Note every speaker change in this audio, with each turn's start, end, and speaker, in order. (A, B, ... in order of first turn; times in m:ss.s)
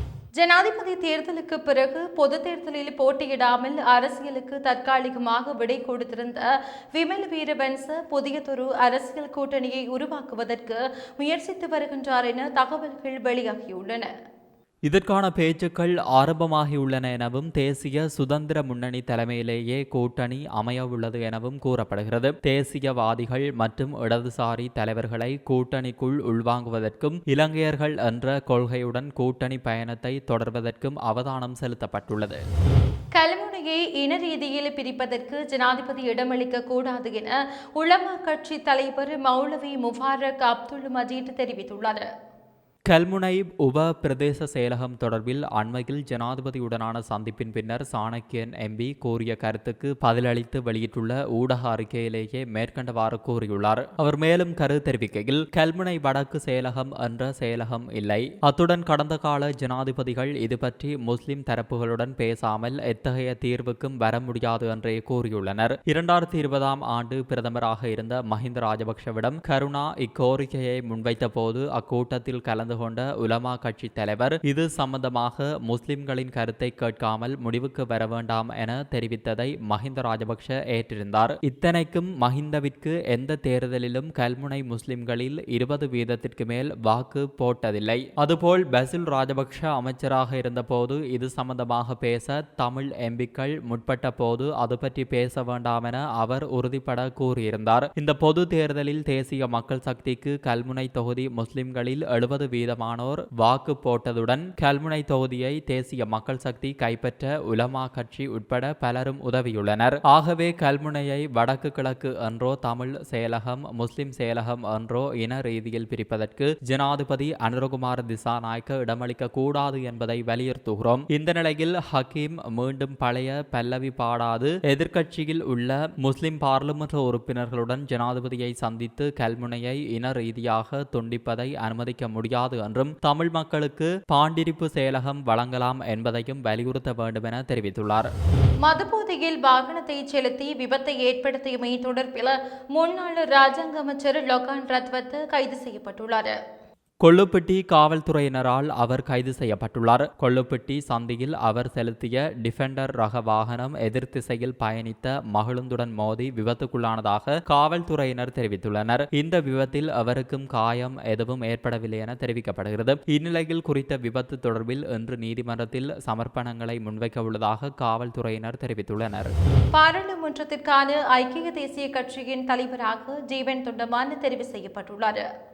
0:00.4-0:14.1 A
0:14.9-0:32.4 B
0:33.1-0:42.0 A
0:42.9-2:18.1 B
2:18.6-2:26.3 A
2:27.0-2:49.3 B
2:49.7-2:55.2 A